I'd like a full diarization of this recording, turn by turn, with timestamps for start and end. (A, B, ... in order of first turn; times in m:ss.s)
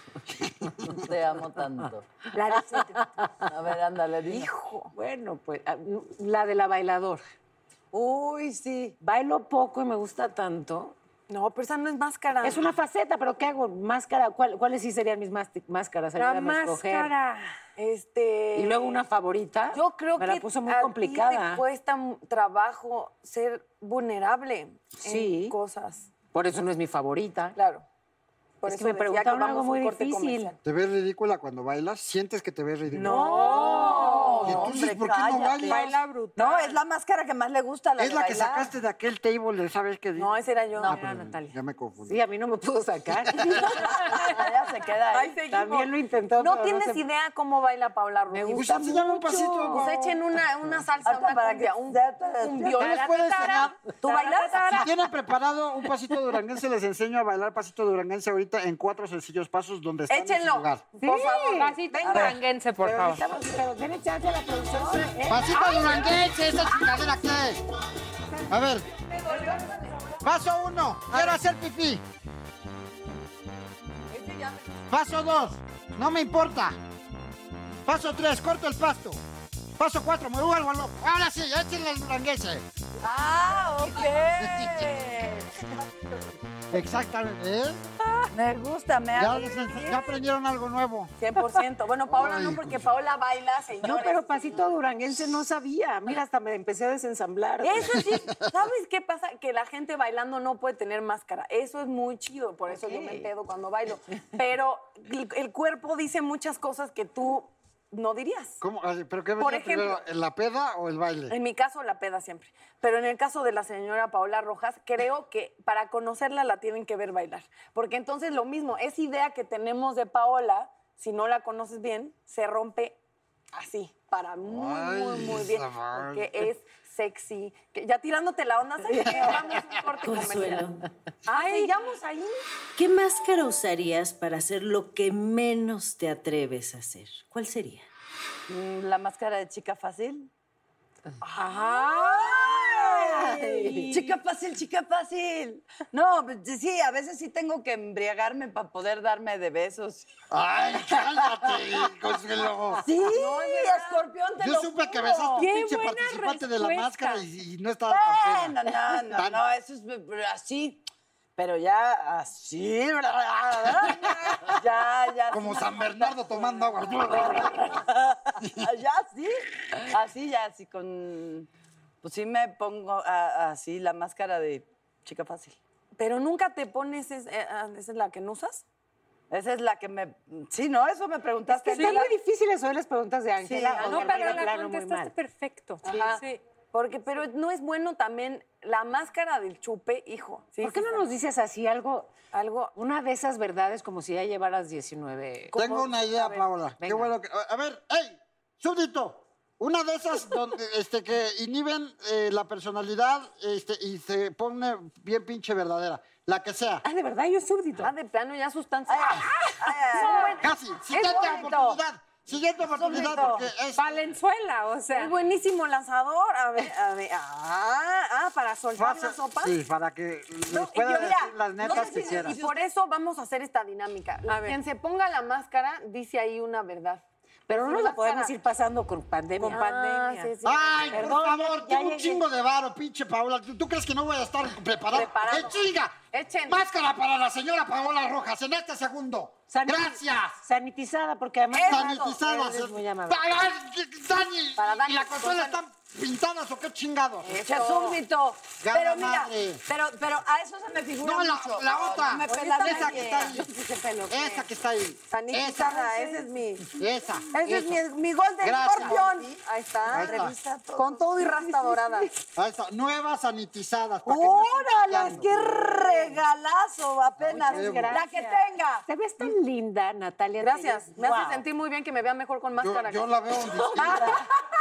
0:00.4-0:00.9 A
0:00.9-0:02.1 B
0:02.3-0:03.3 C
0:03.5-0:04.5 B
0:04.3-0:04.9 D
0:04.9-0:07.2 C
0:07.9-0:09.0 B
0:09.0-0:11.0 C
0:11.3-0:12.6 D
0:12.4-0:17.1 C
0:16.2-0:17.6 E
0:17.8-0:19.0 D
0:18.6-0:21.6 C
0:19.7-0:26.1 D
0:25.0-0:25.6 C
0:26.3-0:27.6 C
0:27.6-0:27.9 D
0:28.6-0:30.6 D
0:28.6-0:30.5 C
0:30.6-0:33.5 A
0:32.9-0:34.8 D
0:33.1-0:34.5 E
0:33.3-0:34.3 C
0:33.7-0:35.8 B
0:34.4-0:35.8 A
0:35.7-0:36.7 E
0:36.4-0:38.7 B
0:38.0-0:42.2 A
0:40.2-0:41.0 D
0:40.8-0:44.2 C
0:43.8-0:45.4 B
0:45.1-0:49.0 D
0:45.5-0:47.0 C
0:48.3-0:49.9 C
0:48.5-0:50.1 A
0:49.6-0:54.9 D
0:51.0-0:52.9 B
0:52.8-0:53.8 A
0:54.0-0:54.6 B
0:54.1-0:54.7 E
0:54.7-1:00.8 A
1:00.1-1:02.3 D
1:01.0-1:02.2 C
1:01.6-1:03.2 E
1:02.0-1:02.4 B
1:02.8-1:05.7 C
1:05.2-1:07.6 A
1:05.5-1:07.0 D
1:08.5-1:08.9 A
1:09.0-1:10.2 D
1:10.2-1:12.0 A
1:14.1-1:14.8 D
1:14.9-1:16.8 A
1:17.9-1:19.2 A
1:19.8-1:22.6 A
1:23.0-1:25.4 B
1:24.0-1:24.3 D
1:24.4-1:24.7 A
1:26.7-1:27.8 A
1:28.3-1:29.6 B
1:29.2-1:31.1 A
1:29.6-1:30.0 D
1:31.2-1:34.6 D
1:32.1-1:32.8 A
1:33.8-1:38.0 C
1:37.6-1:48.6 D
1:38.0-1:38.4 A
1:42.7-1:43.3 C
1:48.6-1:51.4 A
1:49.4-1:50.0 D
1:51.3-2:03.0 D
2:03.5-2:10.7 D
2:04.4-2:06.5 A
2:10.0-2:10.8 F
2:11.3-2:12.4 D
2:11.3-2:11.7 E
2:12.8-2:17.9 F
2:18.5-2:20.3 B
2:21.2-2:22.9 D
2:21.5-2:24.1 C
2:22.4-2:30.1 B
2:30.3-2:32.8 A
2:30.9-2:31.5 B
2:32.8-2:35.5 B
2:33.0-2:34.2 D
2:34.4-2:38.6 A
2:35.4-2:37.2 E
2:37.9-2:40.9 B
2:39.2-2:39.4 A
2:41.4-2:51.5 B
2:45.3-2:47.7 A
2:52.0-2:55.6 B
2:56.0-2:58.6 D
2:59.3-3:02.1 B
3:01.7-3:05.1 C
3:03.4-3:04.0 B
3:03.8-3:04.4 D
3:03.8-3:06.4 E
3:05.8-3:11.0 D
3:10.6-3:12.1 C
3:12.3-3:12.7 D
3:12.8-3:17.1 C
3:15.6-3:26.8 A
3:15.6-3:16.3 D
3:26.8-3:27.9 C
3:27.8-3:29.3 D
3:28.9-3:30.4 B
3:29.9-3:31.8 D
3:30.0-3:30.3 E
3:30.4-3:33.9 A
3:32.8-3:33.4 B
3:32.8-3:33.4 D
3:33.8-3:35.2 E
3:34.9-3:39.6 D
3:38.8-3:42.4 A
3:40.5-3:48.3 D
3:40.9-3:42.6 B
3:44.3-3:44.6 C
3:47.5-3:50.3 C
3:49.4-3:51.1 D
3:50.4-4:00.4 A
3:50.9-3:52.2 C
3:54.9-3:56.7 D
3:59.5-4:03.2 C
4:01.5-4:02.3 D
4:01.7-4:07.4 A
4:04.6-4:05.6 D
4:07.2-4:08.0 D
4:07.4-4:13.5 B
4:08.6-4:09.6 A
4:11.0-4:13.5 A
4:12.2-4:14.5 D
4:14.1-4:15.8 A
4:15.1-4:16.8 D
4:15.8-4:16.2 B
4:16.8-4:17.8 A
4:17.3-4:22.2 D
4:18.4-4:19.0 A
4:18.7-4:21.1 B
4:19.9-4:20.3 A
4:21.4-4:22.0 C
4:22.4-4:25.3 A
4:24.1-4:28.8 B
4:27.3-4:28.0 A
4:27.3-4:31.4 C
4:30.4-4:34.2 D
4:32.6-4:34.1 A
4:33.7-4:34.2 C